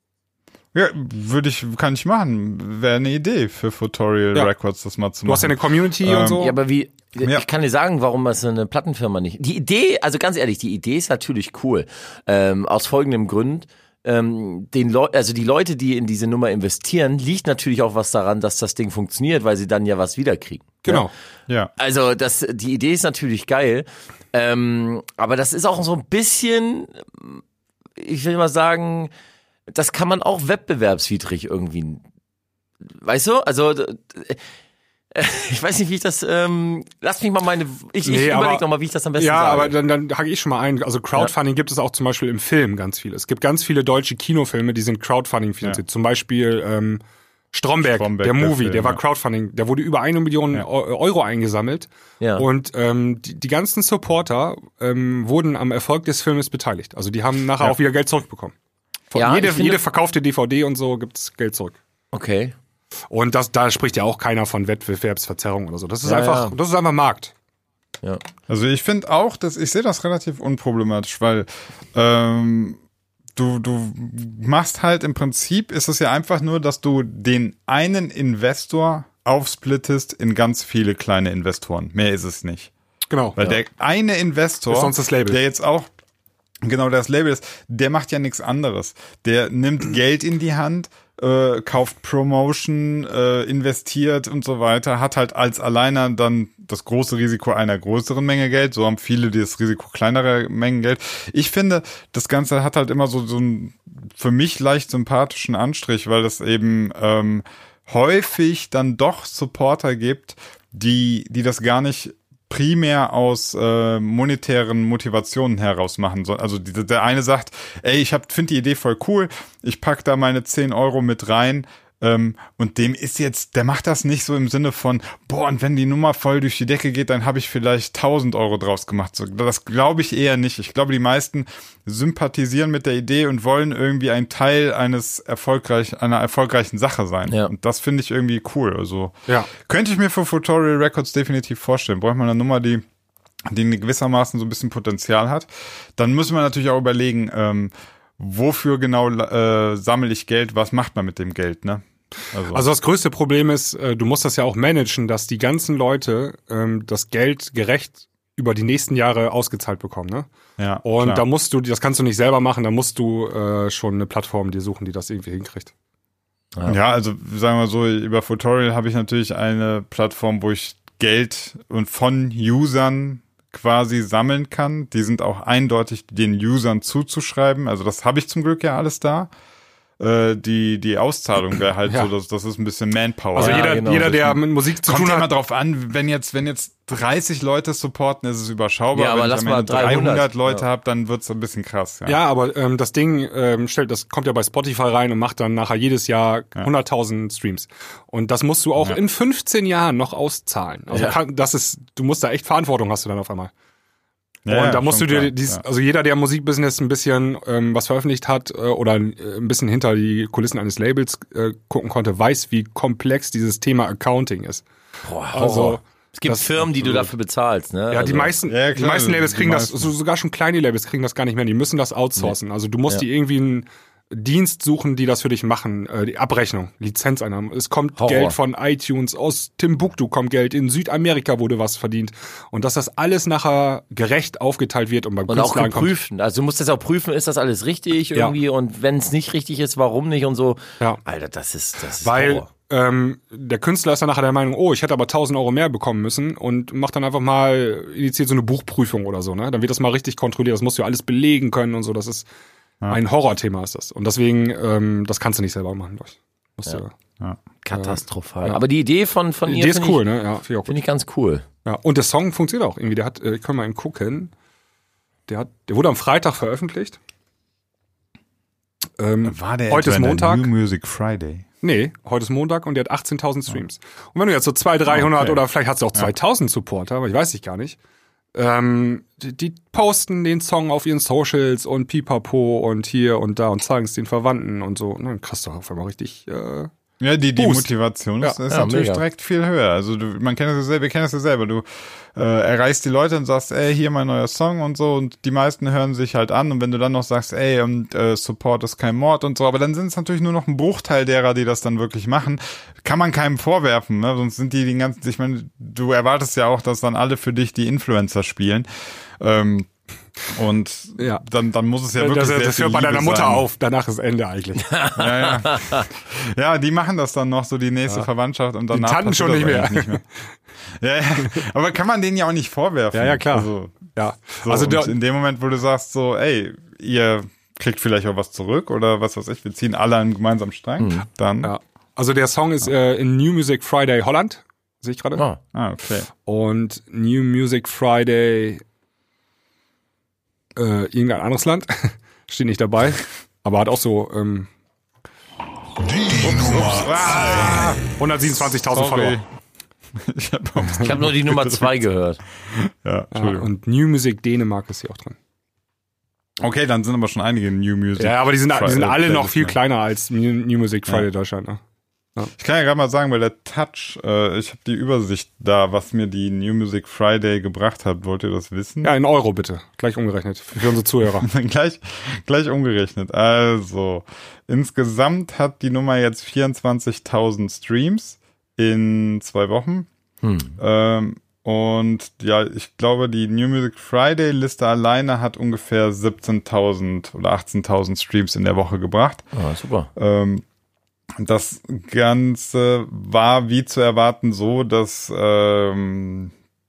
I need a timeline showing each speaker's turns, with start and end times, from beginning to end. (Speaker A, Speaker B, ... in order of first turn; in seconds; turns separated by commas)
Speaker A: 0.7-6.5, Speaker B: 5.3-6.6, Speaker C: 6.4-21.1, Speaker B: 20.9-21.1, Speaker C: 21.8-27.4, Speaker C: 28.0-29.1, Speaker C: 29.7-32.0, Speaker C: 32.9-34.4, Speaker C: 35.1-39.8, Speaker B: 38.0-38.6, Speaker B: 39.2-47.0, Speaker B: 47.5-58.5, Speaker A: 47.8-49.0, Speaker C: 52.2-52.5, Speaker B: 59.1-61.8, Speaker C: 59.1-59.8, Speaker C: 62.1-62.5, Speaker B: 63.1-67.3, Speaker C: 66.0-66.6, Speaker A: 68.5-72.8, Speaker A: 73.3-82.7, Speaker B: 83.1-83.5, Speaker A: 83.4-85.9, Speaker B: 84.7-85.4, Speaker A: 86.6-142.8, Speaker A: 143.5-152.7, Speaker B: 152.5-160.3, Speaker A: 160.6-161.2, Speaker B: 160.8-165.7, Speaker A: 166.7-179.3, Speaker A: 180.0-192.2, Speaker C: 183.3-184.1, Speaker B: 183.3-185.3, Speaker C: 188.9-190.6, Speaker B: 192.1-203.5, Speaker A: 204.4-205.6, Speaker B: 204.5-214.6, Speaker C: 215.0-218.3, Speaker B: 215.3-217.1, Speaker B: 217.9-235.9, Speaker A: 218.5-219.9, Speaker C: 228.0-228.4, Speaker C: 235.3-242.5, Speaker B: 242.0-252.3, Speaker B: 252.9-256.9, Speaker C: 257.6-260.0, Speaker B: 257.7-258.6, Speaker B: 259.5-260.7, Speaker C: 260.7-261.4, Speaker B: 261.7-264.3, Speaker B: 265.3-267.0, Speaker B: 269.0-270.5, Speaker A: 269.3-271.5, Speaker B: 271.6-277.8, Speaker A: 274.9-275.4, Speaker B: 278.4-286.7, Speaker A: 287.0-309.7, Speaker B: 287.4-287.7, Speaker C: 288.5-289.0, Speaker A: 310.3-313.4, Speaker B: 311.0-311.2, Speaker B: 312.0-314.7, Speaker C: 314.6-315.9, Speaker A: 315.0-320.0, Speaker B: 318.7-320.1, Speaker A: 320.7-331.5, Speaker B: 322.9-324.9, Speaker C: 330.8-331.1, Speaker B: 331.4-335.2, Speaker C: 335.2-335.4, Speaker A: 335.5-336.1, Speaker B: 336.3-338.6, Speaker B: 340.6-344.5, Speaker A: 346.2-347.9, Speaker B: 347.9-349.2, Speaker A: 348.6-349.2, Speaker A: 350.0-351.8, Speaker C: 350.8-352.2, Speaker A: 352.5-353.5, Speaker B: 353.1-355.2, Speaker A: 356.4-359.6, Speaker B: 358.0-361.6, Speaker A: 362.4-368.9, Speaker B: 368.8-371.3, Speaker A: 371.2-379.9, Speaker C: 380.2-380.6, Speaker A: 380.6-389.3, Speaker C: 389.3-389.9, Speaker A: 390.0-390.4, Speaker A: 391.2-396.3